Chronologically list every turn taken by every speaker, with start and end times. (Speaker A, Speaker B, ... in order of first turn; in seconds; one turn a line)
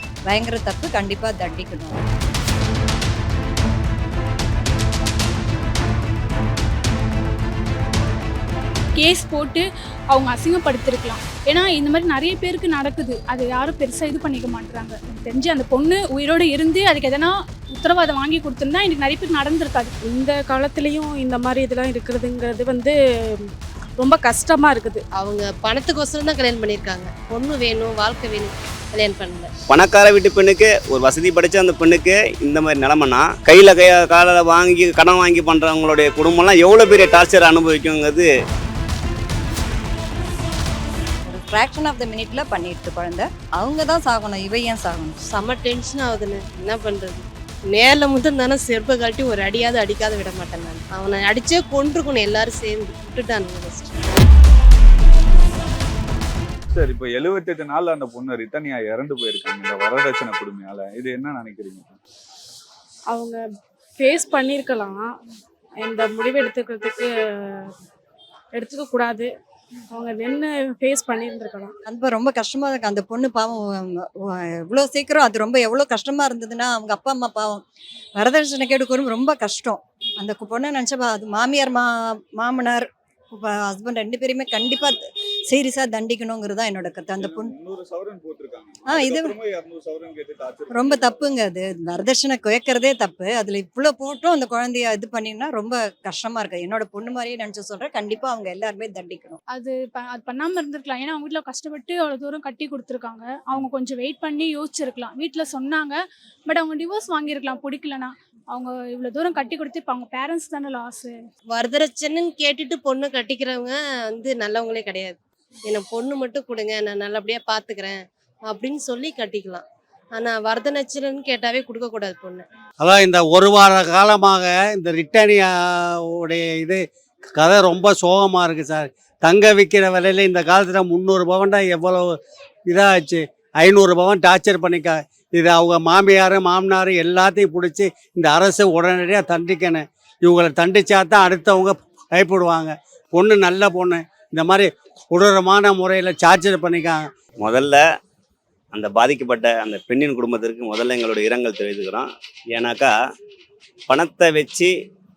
Speaker A: 0.3-2.0
Speaker B: 8.9-19.9
Speaker C: 20.1-22.9
Speaker C: 24.0-25.0
Speaker D: 25.2-29.5
Speaker E: 29.7-38.3
Speaker A: 41.3-45.2
Speaker D: 45.3-54.0
Speaker F: 56.7-62.0
Speaker C: 63.1-63.4
Speaker C: 64.0-65.0
Speaker C: 65.8-67.7
Speaker C: 68.5-69.3
Speaker C: 69.9-71.7
Speaker A: 71.9-77.6
Speaker A: 78.2-87.5
Speaker F: 87.2-91.2
Speaker A: 88.9-89.3
Speaker A: 90.7-99.4
Speaker B: 99.5-111.1
Speaker D: 111.5-115.2
Speaker D: 115.7-119.6
Speaker D: 120.1-122.4
Speaker G: 122.8-125.5
Speaker G: 126.1-126.8
Speaker G: 127.4-132.1
Speaker G: 132.7-147.0
Speaker E: 147.4-147.8
Speaker E: 148.7-152.9
Speaker E: 153.9-154.7